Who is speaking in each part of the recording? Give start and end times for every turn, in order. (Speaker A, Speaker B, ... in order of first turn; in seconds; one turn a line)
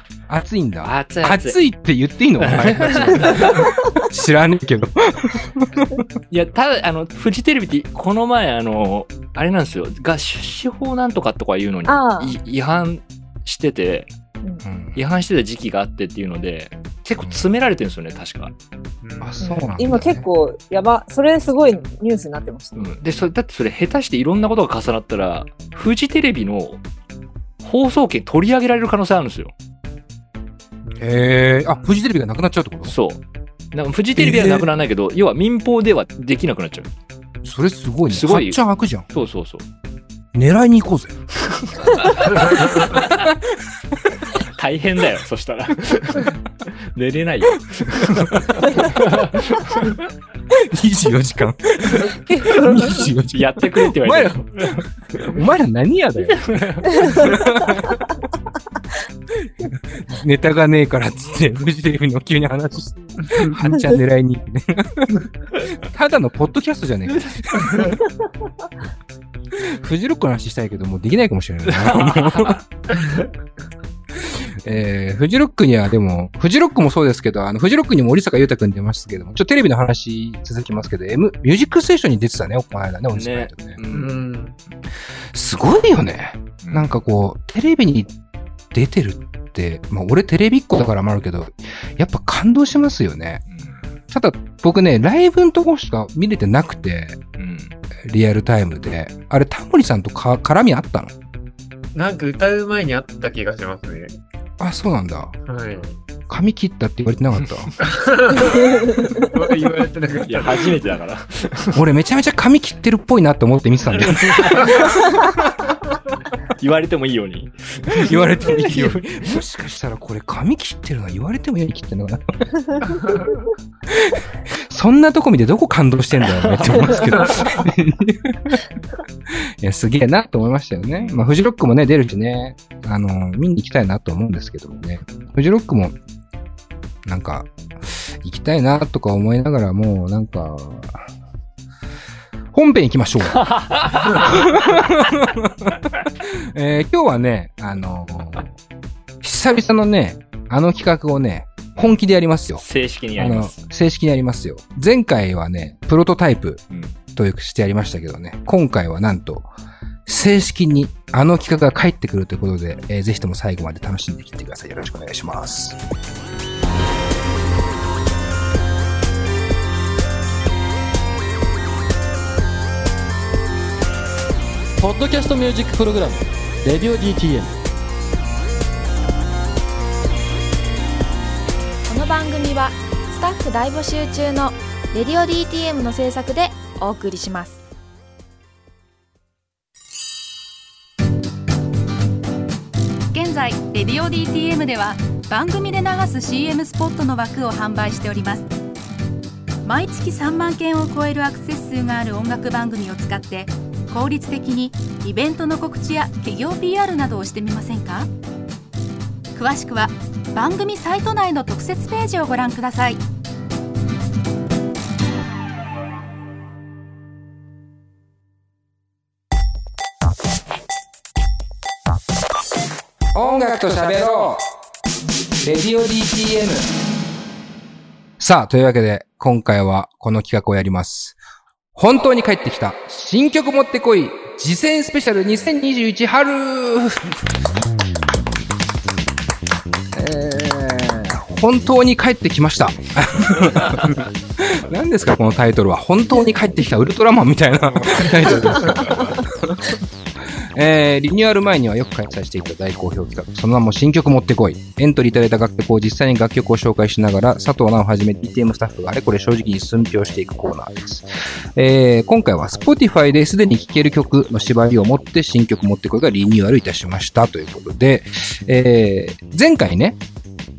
Speaker A: 0.3-6.0
Speaker B: 0.8-1.6
Speaker B: 2.4-3.7
Speaker B: 6.3-14.1
Speaker C: 11.8-12.3
Speaker A: 14.6-15.0
Speaker B: 14.9-18.5
Speaker D: 19.0-19.6
Speaker A: 19.2-20.3
Speaker C: 19.4-22.9
Speaker B: 22.7-26.8
Speaker B: 27.6-29.5
Speaker D: 30.8-31.1
Speaker A: 31.0-32.9
Speaker B: 32.8-33.2
Speaker B: 33.7-36.9
Speaker A: 34.1-34.6
Speaker A: 37.4-39.1
Speaker B: 38.1-39.6
Speaker A: 40.3-41.2
Speaker B: 41.7-43.3
Speaker B: 44.3-49.9
Speaker A: 50.5-58.0
Speaker B: 53.3-55.4
Speaker B: 56.2-57.4
Speaker A: 59.4-68.0
Speaker B: 67.1-67.8
Speaker A: 69.5-72.6
Speaker B: 71.7-72.6
Speaker A: 74.2-83.8
Speaker B: 83.1-84.2
Speaker D: 83.9-84.5
Speaker A: 85.3-88.1
Speaker B: 86.6-87.0
Speaker A: 88.7-93.4
Speaker B: 93.5-93.8
Speaker A: 94.1-97.2
Speaker B: 97.4-97.7
Speaker A: 98.0-101.1
Speaker D: 101.9-104.1
Speaker A: 104.6-105.3
Speaker D: 105.5-106.0
Speaker A: 106.3-107.8
Speaker D: 107.8-110.8
Speaker B: 110.2-111.8
Speaker A: 111.7-115.5
Speaker B: 114.0-115.0
Speaker B: 116.6-119.3
Speaker A: 118.1-123.1
Speaker A: 123.9-128.6
Speaker B: 126.5-127.2
Speaker A: 129.6-135.9
Speaker B: 130.9-131.3
Speaker A: 137.0-141.0
Speaker A: 142.5-143.5
Speaker B: 143.4-144.2
Speaker A: 144.0-148.5
Speaker A: 149.2-152.6
Speaker B: 152.6-153.6
Speaker A: 153.2-156.6
Speaker B: 156.7-156.9
Speaker A: 157.2-159.5
Speaker A: 160.1-165.8
Speaker E: 174.8-177.5
Speaker F: 181.9-187.6
Speaker G: 193.1-198.4
Speaker G: 199.6-208.1
Speaker G: 209.3-213.0
Speaker A: 223.1-224.4
Speaker A: 225.4-226.7
Speaker A: 228.2-231.2
Speaker A: 231.7-237.2
Speaker A: 239.9-249.8
Speaker B: 248.8-249.1
Speaker A: 250.5-270.0